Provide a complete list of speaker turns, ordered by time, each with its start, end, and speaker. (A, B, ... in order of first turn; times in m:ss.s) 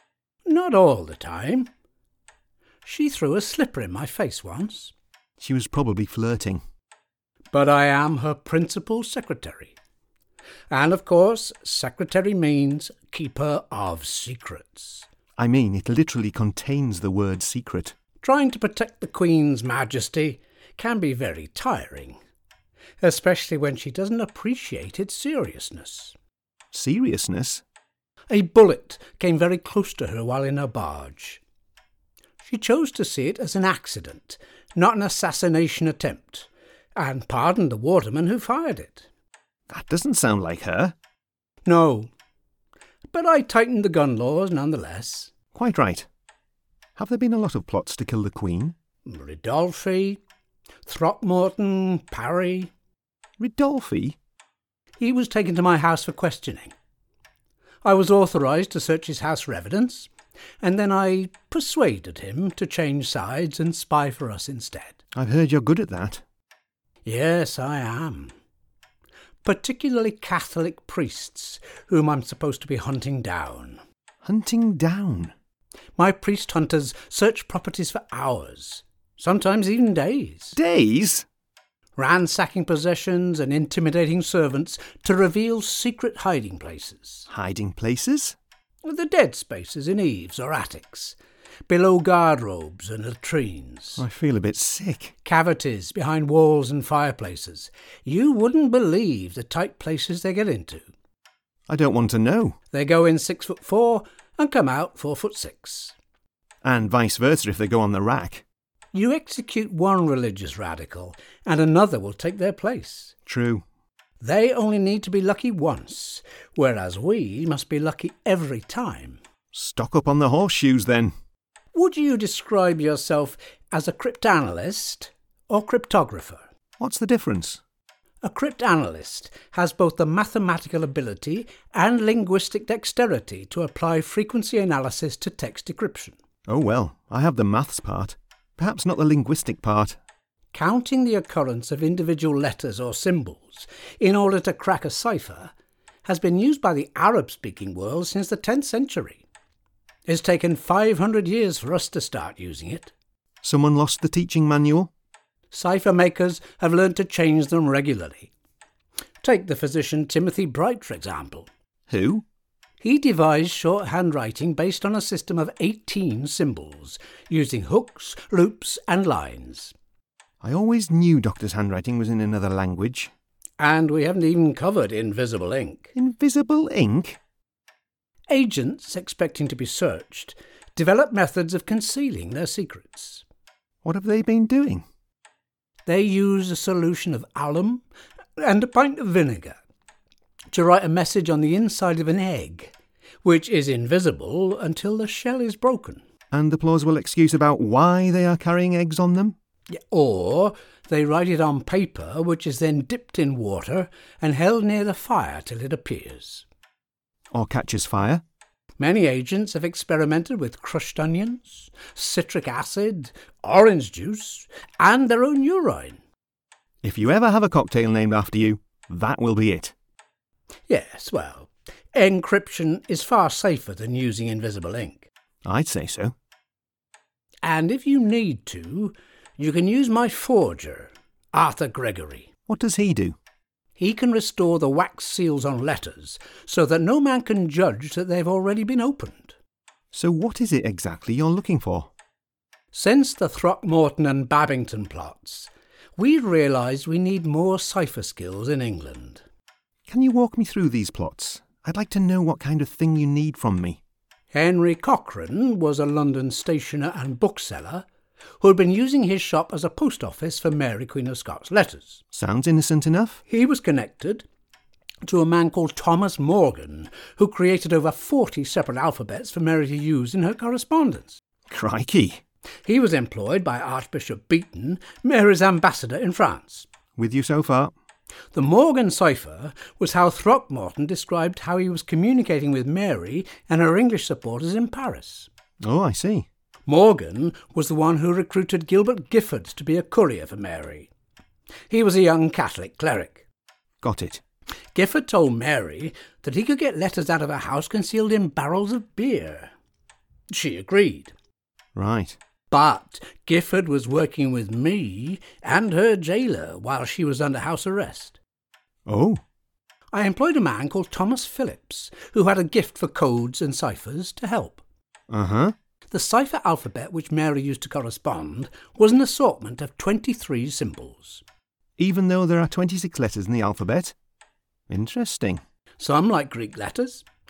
0:00.4-0:01.7 A
0:02.8-0:04.9 A
0:05.4-0:06.6 B
0:07.5-0:09.7 A
0:10.7-0:15.1 A
0:15.4-0:17.9 B
0:18.2-0:22.2 A
0:23.0-0:26.1 A
0:26.7-0:27.6 B
0:28.3-0:31.4 A
0:32.4-0:39.1 A
0:39.7-0:40.9 B
0:41.6-0:42.1 A
0:43.1-0:45.3 A
0:45.5-0:46.1 B
0:47.0-0:48.7 B
0:49.0-0:50.2 A
0:50.8-0:52.7 A
0:53.4-0:54.2 B
0:55.0-0:56.7 A
0:57.8-1:00.1 A
1:00.6-1:05.0 A
1:05.1-1:06.2 B
1:07.0-1:08.3 A
1:09.4-1:13.8 A
1:14.2-1:15.3 B
1:16.0-1:20.6 A
1:20.5-1:21.2 B
1:22.0-1:27.2 A
1:27.3-1:28.4 B
1:28.8-1:31.2 A
1:31.7-1:34.0 A
1:34.0-1:35.1 B
1:35.2-1:40.8 A
1:41.7-1:42.6 B
1:42.7-1:45.9 A
1:46.6-1:48.4 B
1:48.9-1:53.1 A
1:53.2-1:53.6 B
1:54.2-1:59.2 A
1:59.5-2:01.1 B
2:01.7-2:06.4 A
2:06.8-2:07.6 B
2:08.2-2:16.2 A
2:16.5-2:20.0 B
2:20.5-2:25.5 A
2:26.0-2:29.2 A
2:30.1-2:32.9 A
2:33.4-2:34.9 B
2:35.5-2:38.3 A
2:39.2-2:41.5 A
2:41.9-2:42.2 B
2:42.8-2:49.7 A
2:50.4-2:53.1 B
2:53.6-2:55.9 A
2:55.9-2:57.2 B
2:58.3-3:03.2 A
3:03.8-3:04.8 B
3:05.8-3:07.8 A
3:08.4-3:09.6 A
3:10.5-3:12.7 A
3:13.2-3:16.0 A
3:16.3-3:19.3 B
3:19.7-3:26.4 A
3:27.3-3:28.2 B
3:28.8-3:36.0 A
3:36.8-3:39.7 B
3:40.7-3:45.1 A
3:45.4-3:46.1 B
3:47.4-3:52.3 A
3:52.5-3:53.2 B
3:53.8-3:59.3 A
3:59.9-4:01.9 B
4:02.7-4:09.2 A
4:09.9-4:13.8 B
4:14.3-4:17.8 A
4:18.4-4:22.0 A
4:22.1-4:23.2 B
4:23.3-4:24.2 A
4:25.0-4:31.2 A
4:31.5-4:32.2 B
4:32.6-4:36.7 A
4:37.0-4:37.7 B
4:38.3-4:45.3 A
4:45.6-4:46.2 B
4:46.7-4:50.9 A
4:51.7-4:53.2 A
4:53.8-4:54.2 B
4:54.7-4:59.5 A
5:00.3-5:01.1 A
5:01.7-5:02.2 B
5:02.5-5:08.2 A
5:08.8-5:09.2 B
5:09.9-5:14.6 A
5:15.1-5:15.5 B
5:15.9-5:21.2 A
5:21.8-5:23.9 B
5:24.7-5:25.4 B
5:25.8-5:27.0 A